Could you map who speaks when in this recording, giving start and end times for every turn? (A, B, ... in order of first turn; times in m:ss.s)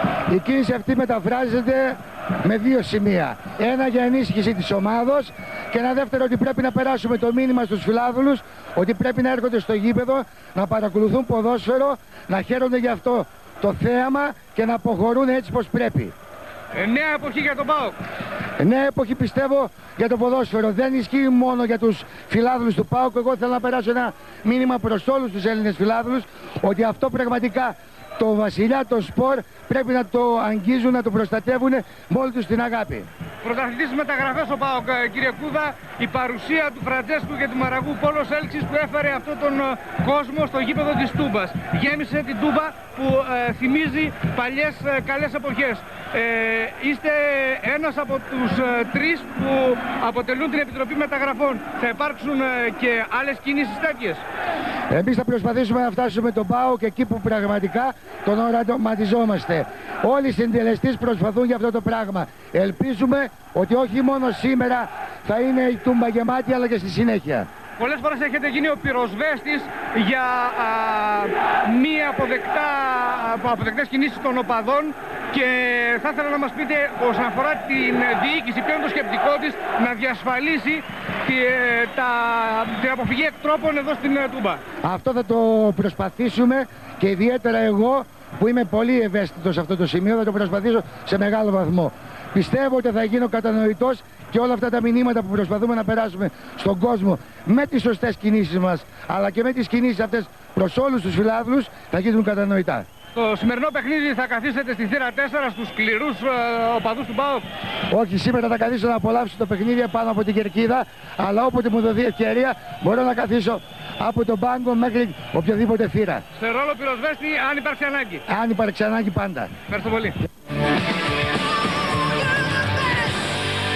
0:00.3-0:16.1 A
0:16.7-0:18.0 B
0:18.6-0:33.1 A
0:33.4-0:54.2 B
0:54.9-1:07.5 A
1:07.8-1:24.6 B
1:24.8-1:42.8 A
1:43.1-1:47.4 B
1:47.9-1:56.2 A
1:56.3-1:58.2 B
1:58.3-1:59.5 A
1:59.7-2:00.2 B